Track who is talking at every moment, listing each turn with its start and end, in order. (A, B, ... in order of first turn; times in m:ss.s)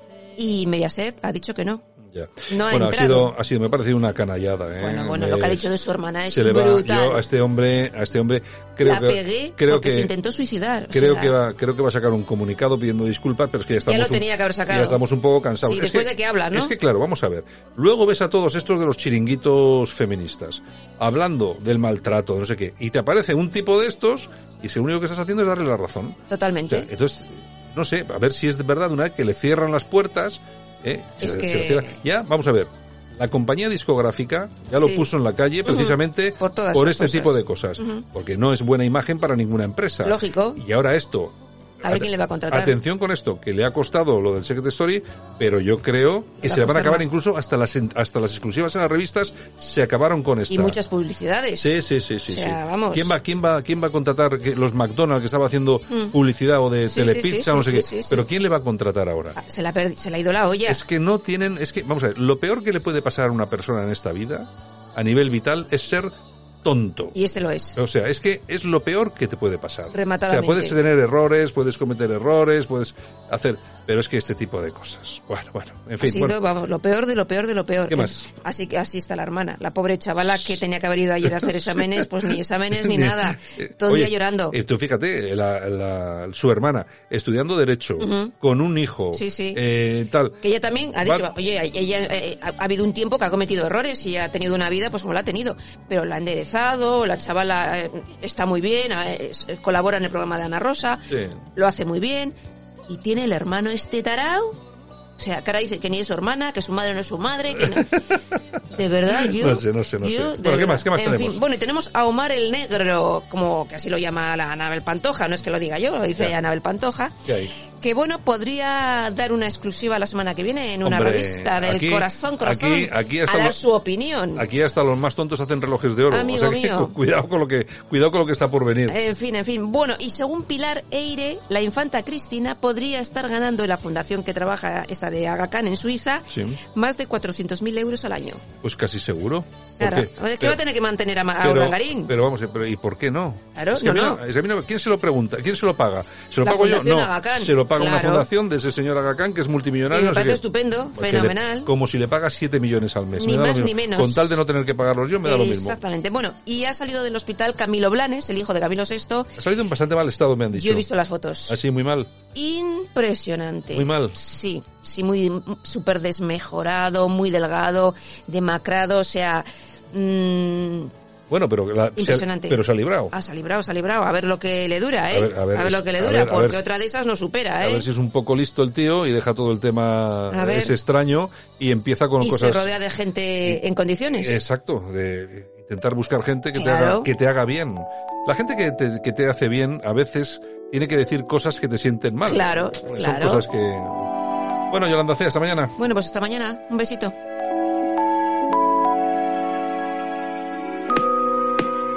0:00.4-0:01.8 A
0:02.1-0:05.8 B
0:02.5-0:03.3 A
0:04.8-0:07.2 A
0:06.3-0:10.1 B
0:08.8-0:11.4 A
0:10.9-0:50.8 B
0:13.9-0:15.0 A
0:15.6-0:16.8 A
0:26.3-0:26.9 A
0:31.2-0:32.0 A
0:34.8-0:35.1 A
0:35.6-0:38.0 A
0:40.0-0:40.6 A
0:41.8-0:42.8 A
0:46.4-0:47.1 A
0:50.5-0:51.7 A
0:51.6-0:59.4 B
0:52.3-0:53.1 A
0:56.9-0:58.2 A
0:59.4-1:00.8 A
1:00.7-1:06.1 B
1:06.6-1:07.2 B
1:07.1-1:07.8 A
1:07.8-1:16.4 B
1:09.9-1:10.8 A
1:16.0-1:24.6 A
1:17.9-1:18.3 B
1:21.2-1:30.4 B
1:28.0-1:28.3 A
1:29.1-1:29.6 A
1:30.4-1:42.4 A
1:31.0-1:31.3 B
1:41.1-1:41.4 B
1:42.9-1:44.6 A
1:45.2-1:48.0 A
1:47.6-1:48.4 B
1:48.7-1:57.2 A
1:49.1-1:51.4 B
1:57.3-1:57.5 B
1:57.8-2:04.4 A
2:00.8-2:03.6 B
2:04.4-2:09.0 B
2:06.1-2:07.0 A
2:08.9-2:18.4 A
2:16.3-2:16.6 B
2:18.6-2:20.6 B
2:19.8-2:22.1 A
2:21.4-2:35.8 B
2:23.6-2:24.2 A
2:26.4-2:28.3 A
2:29.9-2:31.7 A
2:33.1-2:34.4 A
2:35.2-2:39.3 A
2:39.4-2:40.9 B
2:40.5-2:41.6 A
2:41.5-2:42.1 B
2:42.3-2:50.9 A
2:43.7-2:44.2 B
2:51.3-2:53.1 B
2:52.0-2:57.9 A
2:55.1-2:56.6 B
2:57.6-3:02.7 B
3:00.3-3:00.8 A
3:02.2-3:04.4 A
3:04.1-3:14.1 B
3:06.5-3:07.1 A
3:12.2-3:13.4 A
3:14.7-3:15.8 B
3:15.8-3:17.1 A